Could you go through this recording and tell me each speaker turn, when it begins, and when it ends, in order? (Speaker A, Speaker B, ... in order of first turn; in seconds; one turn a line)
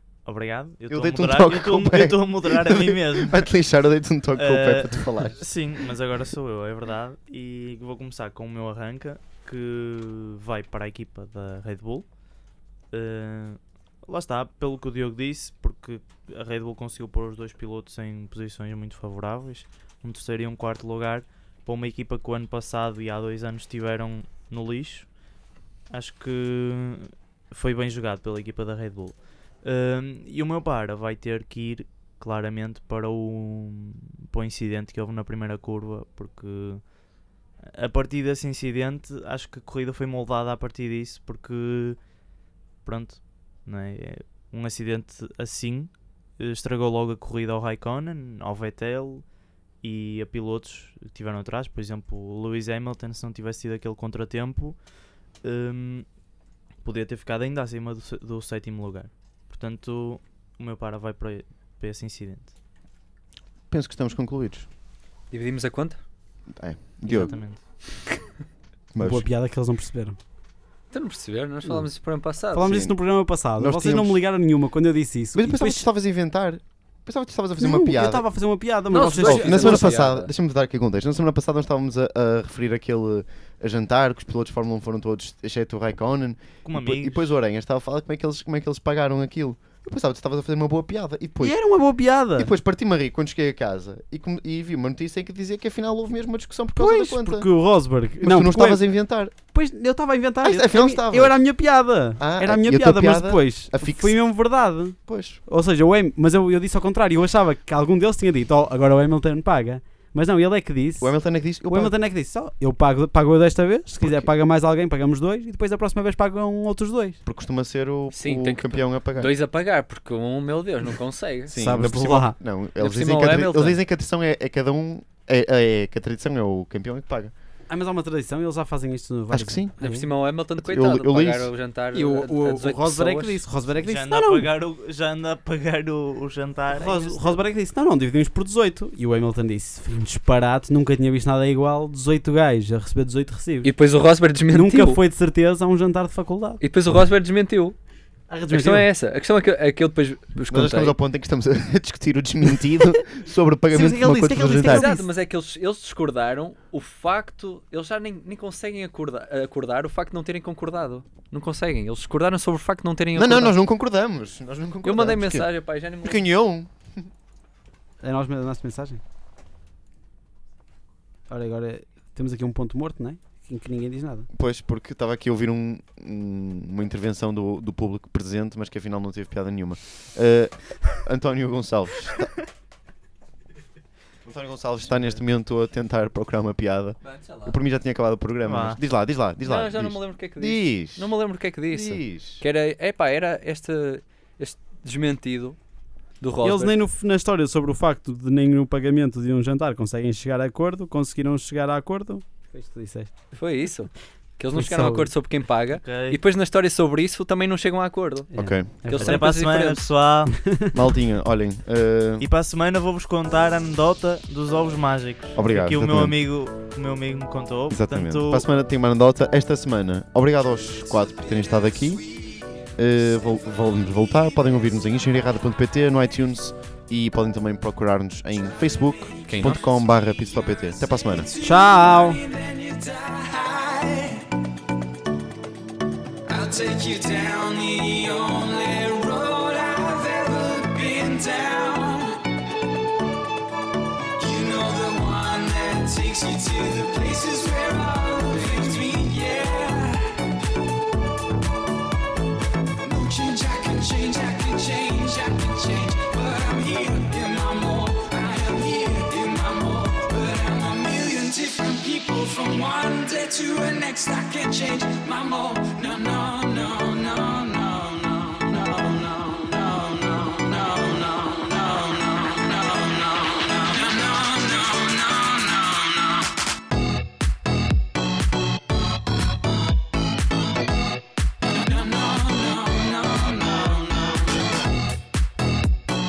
Speaker A: 0.2-3.5
Speaker B: 0.9-5.5
Speaker A: 4.4-12.2
Speaker A: 12.9-25.1
Speaker A: 25.9-36.9
Speaker A: 37.6-42.0
Speaker A: 42.8-49.3
Speaker A: 49.8-54.8
Speaker A: 55.4-56.1
Speaker A: 56.8-62.5
Speaker B: 63.7-64.7
Speaker C: 65.3-66.0
Speaker B: 66.5-67.4
Speaker A: 67.0-67.6
Speaker B: 68.9-69.3
Speaker D: 69.0-70.2
Speaker C: 70.9-72.7
Speaker D: 72.5-75.8
Speaker B: 72.6-73.0
Speaker B: 73.5-74.2
Speaker B: 75.3-78.2
Speaker D: 77.6-79.9
Speaker C: 78.9-80.3
Speaker B: 79.2-91.6
Speaker A: 86.6-87.3
Speaker D: 91.4-92.5
Speaker B: 92.3-97.5
Speaker D: 96.8-98.8
Speaker B: 98.2-99.3
Speaker D: 99.4-117.2
Speaker B: 100.4-101.4
Speaker B: 102.2-104.2
Speaker B: 105.0-105.4
Speaker B: 111.0-111.9
Speaker B: 114.0-114.3
Speaker B: 117.2-119.3
Speaker C: 118.1-121.5
Speaker B: 121.5-127.3
Speaker D: 121.5-122.3
Speaker C: 122.8-123.8
Speaker D: 127.7-130.1
Speaker B: 129.3-129.7
Speaker C: 129.8-133.4
Speaker B: 130.6-131.5
Speaker D: 131.9-134.5
Speaker A: 133.8-137.4
Speaker D: 136.7-143.7
Speaker C: 143.6-145.0
Speaker D: 144.5-146.6
Speaker C: 146.6-147.8
Speaker D: 148.3-148.9
Speaker C: 148.5-150.9
Speaker B: 150.5-154.9
Speaker D: 153.7-155.1
Speaker C: 154.6-163.5
Speaker B: 163.1-167.0
Speaker C: 164.8-166.3
Speaker D: 168.0-169.0
Speaker D: 171.3-174.3
Speaker B: 174.3-182.4
Speaker B: 184.2-191.2
Speaker C: 187.0-187.6
Speaker A: 188.4-188.8
Speaker C: 189.4-195.6
Speaker B: 191.7-192.4
Speaker C: 196.2-196.8
Speaker D: 196.4-203.1
Speaker C: 203.3-209.9
Speaker D: 204.5-205.1
Speaker A: 205.8-206.2
Speaker D: 208.3-209.2
Speaker B: 208.3-208.7
Speaker A: 208.9-210.4
Speaker B: 210.7-212.3
Speaker A: 212.2-218.4
Speaker B: 215.3-216.2
Speaker B: 217.7-222.0
Speaker B: 222.8-231.3
Speaker C: 229.3-229.6
Speaker E: 231.3-234.3
Speaker D: 231.4-232.2
Speaker E: 236.3-242.2
Speaker E: 244.2-250.2
Speaker E: 252.8-275.9
Speaker E: 281.5-284.3